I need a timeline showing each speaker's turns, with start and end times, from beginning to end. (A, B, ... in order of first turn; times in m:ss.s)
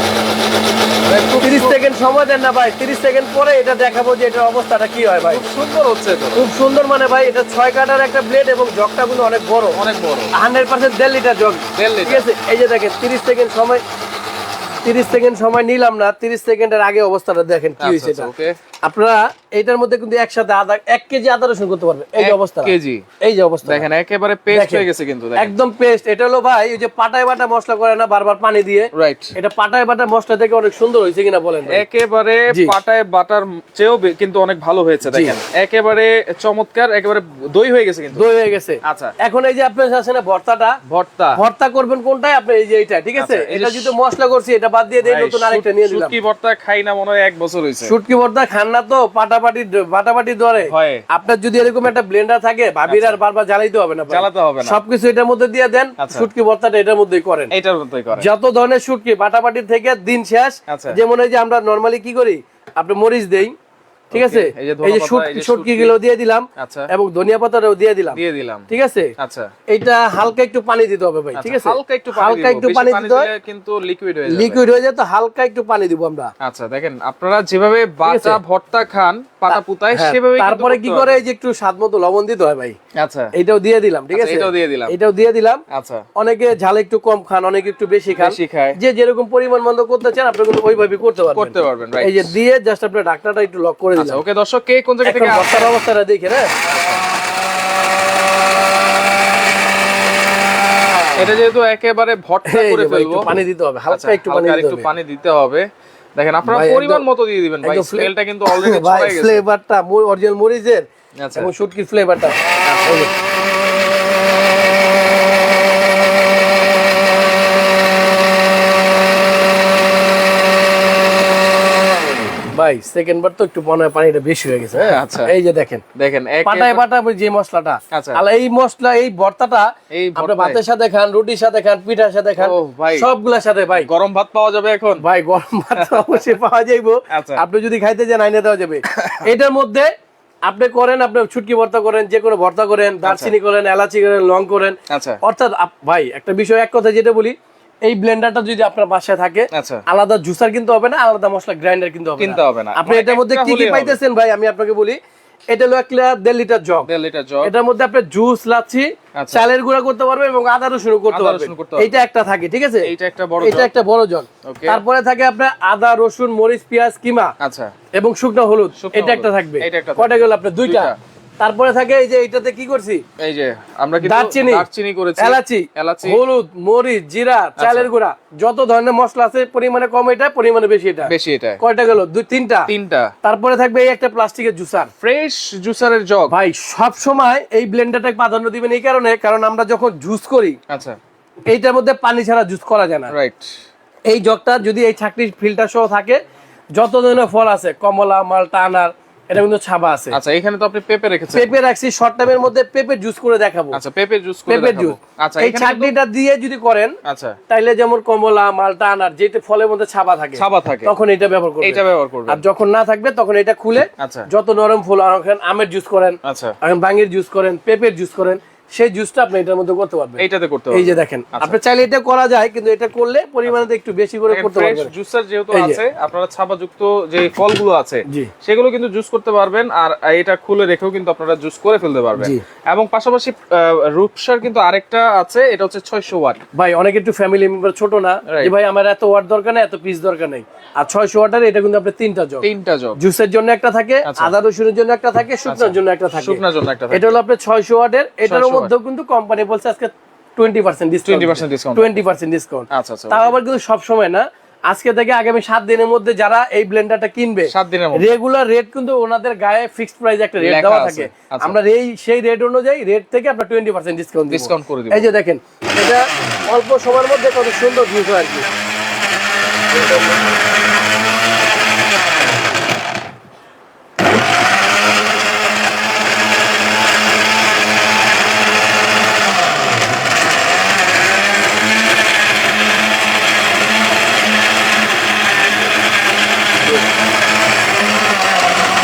0:01.0-0:01.8 A
0:01.4-0:05.4 B
0:05.3-0:06.4 A
0:06.3-0:09.8 B
0:09.7-0:10.3 A
0:10.3-0:13.8 B
0:11.7-0:12.2 A
0:14.8-0:18.3 B
0:17.8-0:18.5 A
0:18.8-0:23.8 B
0:22.2-0:23.0 A
0:23.6-0:25.5 A
0:24.5-0:24.8 B
0:25.4-0:31.8 B
0:28.9-0:29.3 A
0:31.7-0:38.2 A
0:35.0-0:35.4 B
0:38.1-0:40.8 B
0:38.8-0:39.1 A
0:40.9-0:41.4 A
0:41.4-0:46.1 B
0:43.2-0:44.0 A
0:45.0-0:47.9 A
0:47.8-0:57.5 B
0:50.7-0:51.0 A
0:52.9-0:53.2 A
0:54.1-0:54.8 A
0:56.0-0:56.3 A
0:57.5-0:58.3 A
0:58.2-1:03.5 B
1:00.7-1:01.0 A
1:04.1-1:06.0 A
1:04.1-1:09.1 B
1:06.6-1:06.9 A
1:08.1-1:09.5 A
1:09.7-1:13.3 B
1:11.3-1:14.6 A
1:14.3-1:16.3 B
1:16.4-1:21.2 A
1:18.0-1:18.4 B
1:19.5-1:22.8 B
1:23.0-1:23.3 A
1:23.3-1:25.6 B
1:24.1-1:24.9 A
1:25.7-1:26.0 A
1:26.2-1:34.2 B
1:28.2-1:28.8 A
1:31.3-1:32.3 A
1:33.9-1:35.7 A
1:35.0-1:36.5 B
1:36.6-1:37.0 A
1:41.2-1:43.4 A
1:42.5-1:44.8 B
1:43.9-1:45.6 A
1:46.2-1:49.4 A
1:46.4-1:47.0 B
1:47.6-1:50.8 B
1:51.2-1:51.5 A
1:51.4-1:53.1 B
1:52.6-1:53.0 A
2:02.5-2:05.8 B
2:04.8-2:05.3 A
2:06.0-2:06.8 A
2:06.4-2:13.9 B
2:07.9-2:08.2 A
2:09.9-2:10.6 A
2:12.4-2:13.1 A
2:13.7-2:15.0 A
2:15.0-2:19.9 B
2:15.7-2:16.3 A
2:17.1-2:17.4 A
2:18.9-2:19.2 A
2:20.4-2:35.0 B
2:23.0-2:23.3 A
2:24.9-2:25.2 A
2:29.5-2:29.8 A
2:32.2-2:34.0 A
2:35.5-2:36.9 B
2:36.9-2:37.5 A
2:37.4-2:42.9 B
2:39.2-2:39.4 A
2:41.1-2:41.9 A
2:42.8-2:43.7 A
2:43.4-2:47.3 B
2:44.4-2:44.8 A
2:47.4-2:47.7 A
2:48.0-2:53.0 B
2:48.8-2:51.0 A
2:53.2-2:56.2 A
2:54.0-2:54.6 B
2:55.2-3:02.7 B
2:57.6-2:57.9 A
3:01.1-3:01.6 A
3:02.7-3:03.1 A
3:03.2-3:04.9 B
3:05.0-3:06.3 A
3:06.3-3:10.6 B
3:10.7-3:11.0 A
3:11.5-3:13.1 B
3:13.1-3:13.5 A
3:14.1-3:16.2 B
3:16.7-3:20.2 B
3:20.1-3:21.5 A
3:21.3-3:23.8 B
3:23.7-3:25.9 A
3:24.5-3:26.9 B
3:27.0-3:27.4 A
3:27.5-3:44.9 B
3:30.4-3:30.9 A
3:31.6-3:32.4 A
3:34.0-3:34.3 A
3:36.2-3:36.5 A
3:40.2-3:41.6 A
3:44.3-3:56.4 A
3:45.5-3:45.8 B
3:52.2-3:52.4 B
3:56.5-4:02.4 B
3:58.3-3:58.5 A
4:02.4-4:03.0 A
4:03.0-4:28.5 B
4:04.0-4:04.3 A
4:05.4-4:07.1 A
4:08.2-4:08.7 A
4:11.0-4:12.0 A
4:12.7-4:13.3 A
4:17.5-4:18.1 A
4:20.4-4:21.6 A
4:24.3-4:25.1 A
4:29.7-4:30.2 B